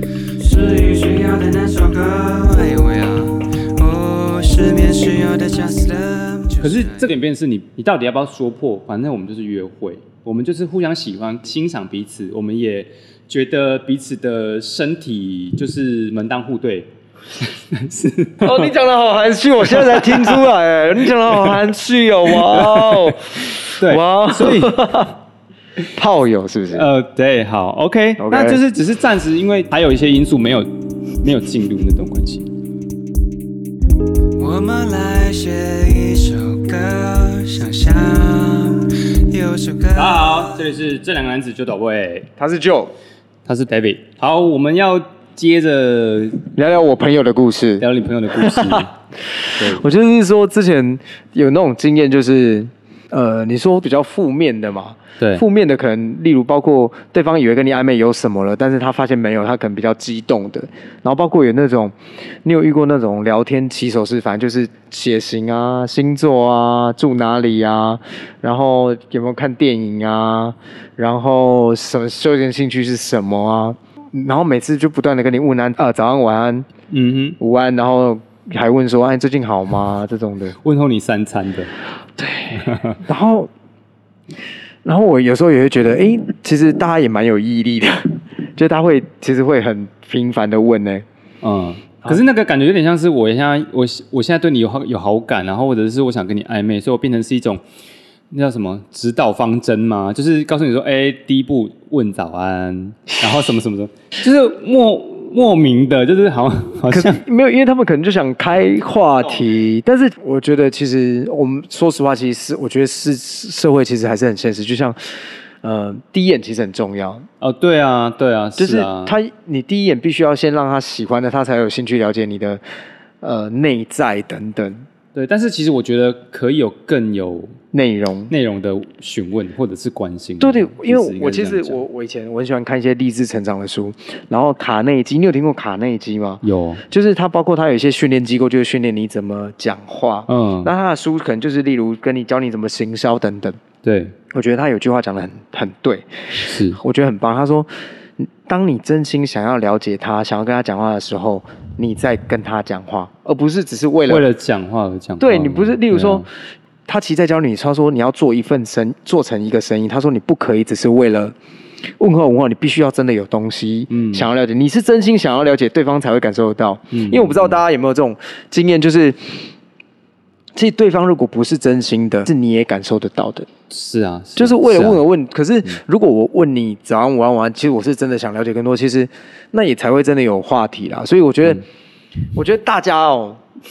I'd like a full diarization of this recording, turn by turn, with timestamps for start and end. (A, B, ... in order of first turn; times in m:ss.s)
0:00.4-0:07.1 A
0:06.6-0:16.9 B
0:17.4-0:18.7 B
0:18.4-0:25.1 C
0:19.7-0:20.4 B
0:21.3-0:21.6 B
0:22.3-0:25.1 B
0:25.9-0:26.9 C
0:26.7-0:30.7 B
0:28.2-0:28.6 C
0:31.2-0:32.5 B
0:34.4-0:40.6 A
0:40.0-0:42.3 B
0:42.4-0:43.0 C
0:43.4-0:46.4 B
0:46.5-0:48.9 C
0:47.8-0:48.9 B
0:49.4-1:16.7 C
0:49.6-0:49.8 B
0:55.2-0:55.4 B
1:16.9-1:17.4 B
1:17.4-1:20.6 C
1:20.6-1:21.7 B
1:22.2-1:23.5 C
1:22.5-1:23.0 B
1:24.8-1:31.0 C
1:31.4-1:37.6 B
1:38.3-1:47.2 B
1:46.9-1:55.0 C
1:55.6-1:57.2 C
1:57.4-1:59.2 B
1:58.6-2:02.6 C
2:03.2-2:04.8 C
2:05.1-2:07.5 B
2:07.7-2:08.3 C
2:08.3-2:11.8 B
2:10.4-2:23.6 C
2:16.4-2:16.8 B
2:20.3-2:20.7 B
2:23.8-2:24.2 B
2:24.3-2:27.7 C
2:26.4-2:26.8 B
2:28.2-2:34.2 C
2:34.1-2:36.2 B
2:35.2-2:36.2 C
2:36.8-2:41.3 C
2:42.0-2:49.5 C
2:43.9-2:44.3 B
2:46.9-2:47.6 B
2:50.5-2:53.5 C
2:53.7-2:55.0 B
2:54.4-3:01.6 C
3:02.3-3:03.4 C